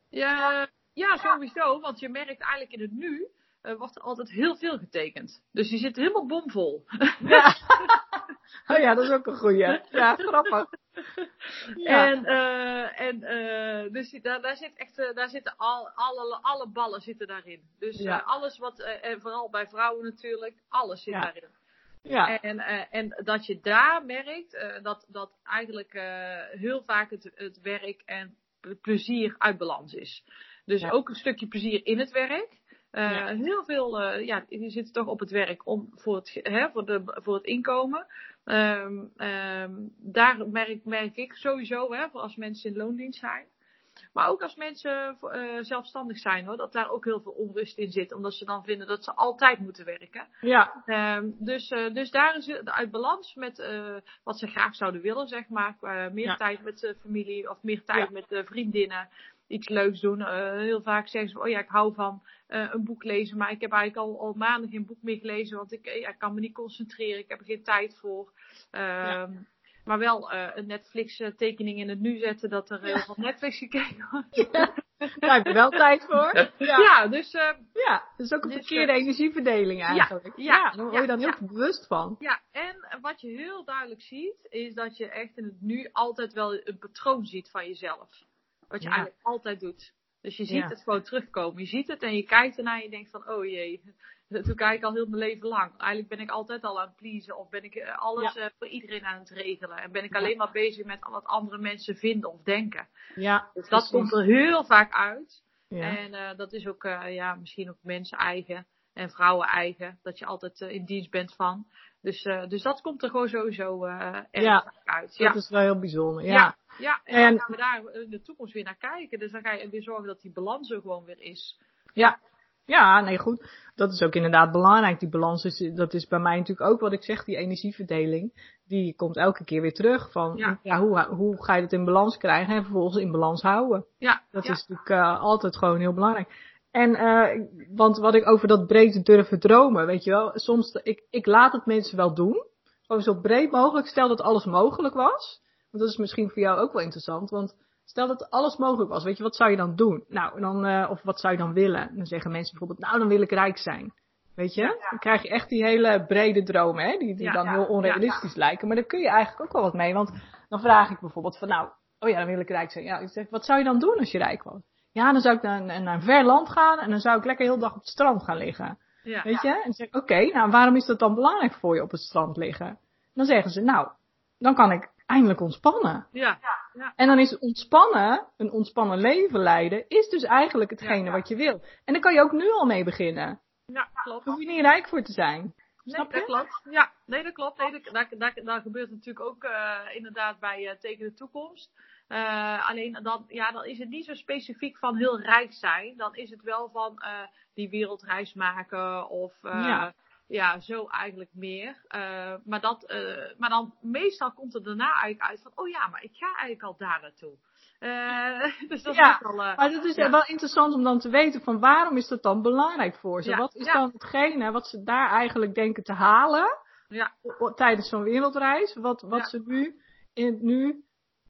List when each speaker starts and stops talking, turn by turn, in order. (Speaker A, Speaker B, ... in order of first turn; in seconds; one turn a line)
Speaker A: 0.1-7.9
Speaker B: 7.2-10.7
Speaker A: 9.8-10.5
Speaker B: 11.8-12.1
Speaker A: 11.8-21.5
Speaker B: 18.0-18.2
Speaker B: 22.1-22.3
Speaker A: 22.3-43.5
Speaker A: 44.1-50.3
Speaker B: 50.4-50.8
Speaker A: 50.9-75.8
Speaker B: 74.4-76.9
Speaker A: 76.3-77.7
Speaker B: 77.7-82.2
Speaker A: 78.5-78.9
Speaker A: 79.9-81.3
Speaker A: 82.2-102.9
Speaker B: 88.8-89.1
Speaker B: 103.2-104.1
Speaker A: 103.6-115.3
Speaker B: 105.7-106.0
Speaker B: 114.4-114.7
Speaker B: 115.2-116.5
Speaker A: 116.3-121.6
Speaker B: 117.1-117.5
Speaker B: 122.7-176.1
Speaker A: 134.0-134.6
Speaker A: 157.2-158.1
Speaker A: 169.0-169.4
Speaker A: 176.1-176.9
Speaker B: 177.0-183.4
Speaker A: 183.7-184.4
Speaker B: 184.2-186.3
Speaker A: 185.9-210.1
Speaker B: 199.5-199.8
Speaker B: 208.9-216.5
Speaker A: 213.2-213.8
Speaker B: 217.2-220.8